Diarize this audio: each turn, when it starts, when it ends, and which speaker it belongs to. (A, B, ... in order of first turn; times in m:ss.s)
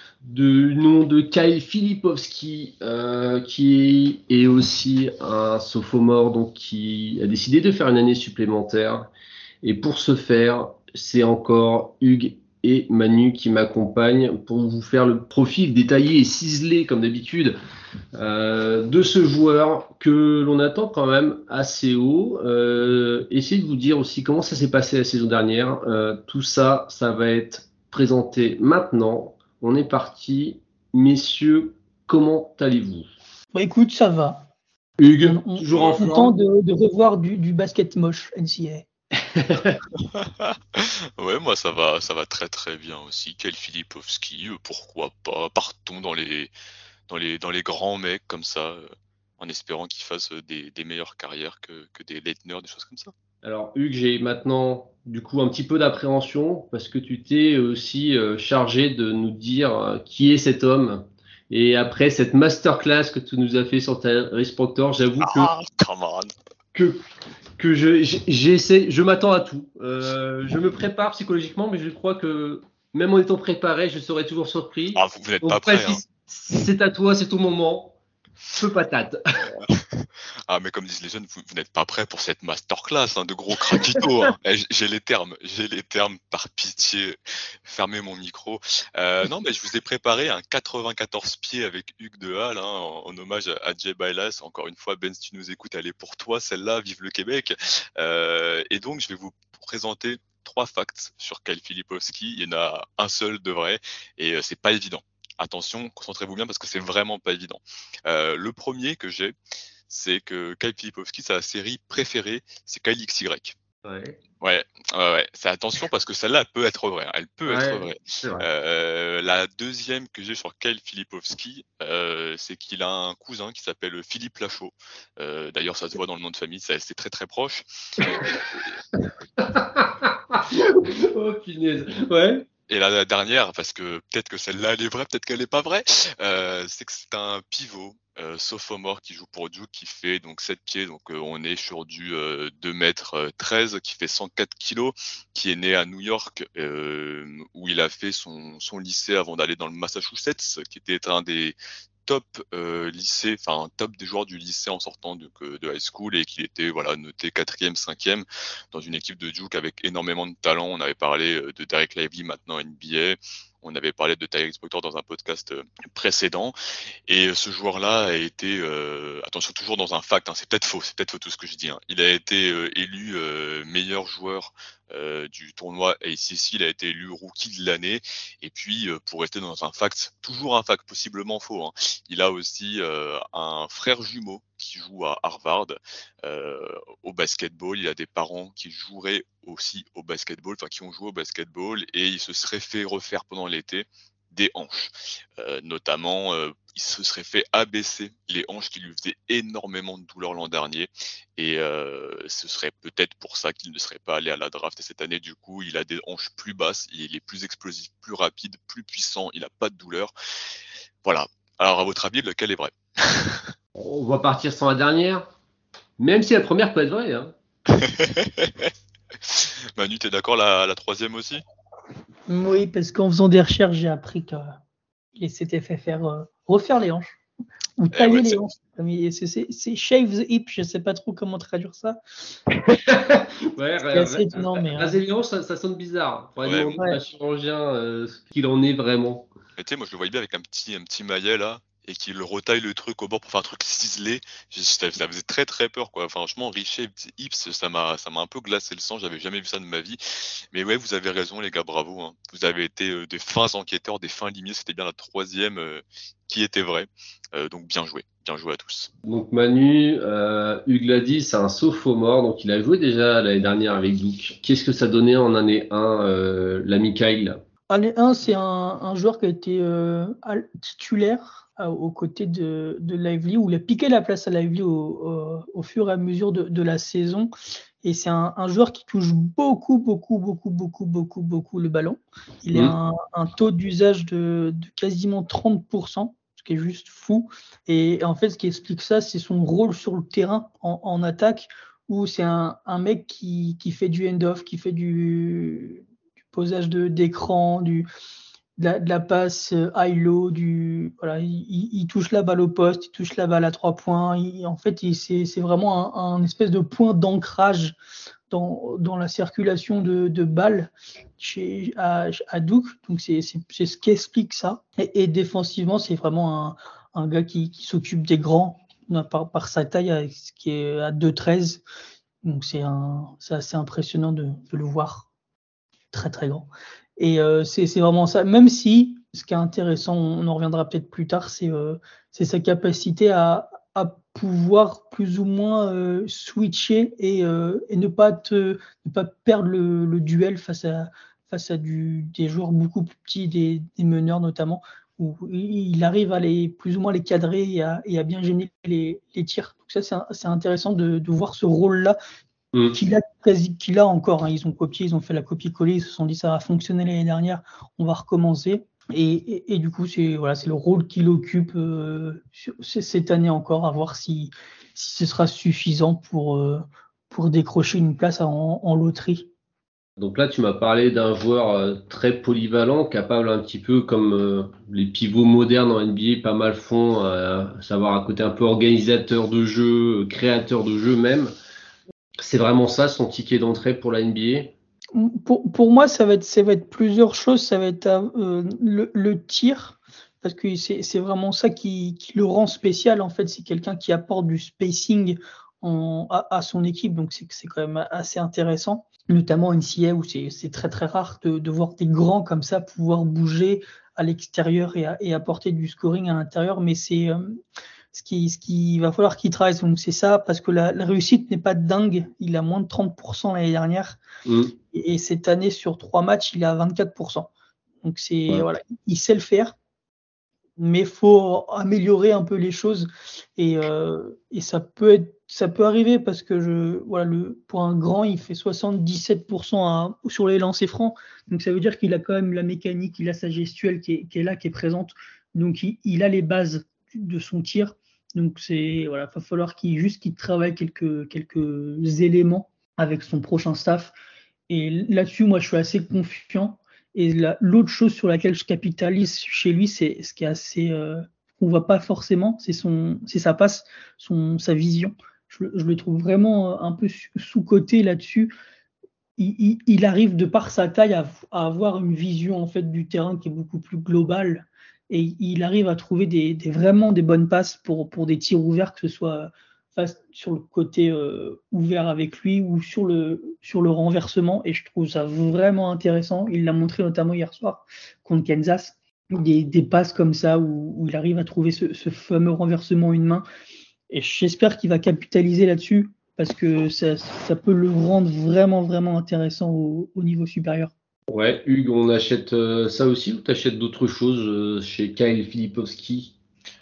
0:00.2-0:09.1 A
0:09.6-0:17.6 A
0:18.1-0:33.1 A
0:33.5-0:34.4 B
0:35.0-0:36.3 A
0:35.2-0:38.9 B
0:35.7-0:36.0 C
0:39.3-0:39.8 A
0:40.0-0:46.5 C
0:47.1-0:48.8 C
0:49.4-0:53.1 C
0:53.4-1:05.5 A
1:05.2-1:06.3 C
1:06.7-1:07.0 A
1:07.6-1:18.0 A
1:14.9-1:16.0 C
1:18.5-1:19.6 A
1:19.7-1:49.3 C
1:49.9-1:53.6 C
1:53.8-1:54.2 A
1:54.4-2:08.6 C
1:57.4-1:58.5 A
2:08.1-2:08.4 A
2:09.4-2:12.4 A
2:12.7-2:46.5 C
2:47.1-3:30.1 C
3:31.0-3:33.5 C
3:33.7-3:35.3 A
3:36.0-3:37.3 A
3:37.7-3:38.7 C
3:39.2-3:41.4 C
3:42.3-3:44.6 B
3:45.2-3:47.2 B
3:47.8-3:52.0 B
3:47.9-3:48.4 C
3:52.6-3:59.3 A
3:53.9-3:55.0 B
3:56.4-3:56.8 C
3:59.6-4:18.9 C
4:19.0-4:27.4 A
4:27.7-4:37.3 B
4:37.8-4:57.9 B
4:58.6-5:07.7 B
5:08.3-5:21.6 B
5:22.2-5:25.1 B
5:25.9-5:52.0 B
5:52.7-6:09.3 B
6:10.0-6:21.3 A
6:22.2-6:24.5 A
6:24.9-6:47.4 B
6:47.9-6:54.0 B
6:54.2-6:54.5 A
6:54.7-6:57.3 B
6:57.8-6:59.6 B
7:00.6-7:23.9 B
7:24.5-7:38.3 B
7:39.2-8:03.2 B
8:03.9-8:10.7 B
8:11.1-8:16.1 A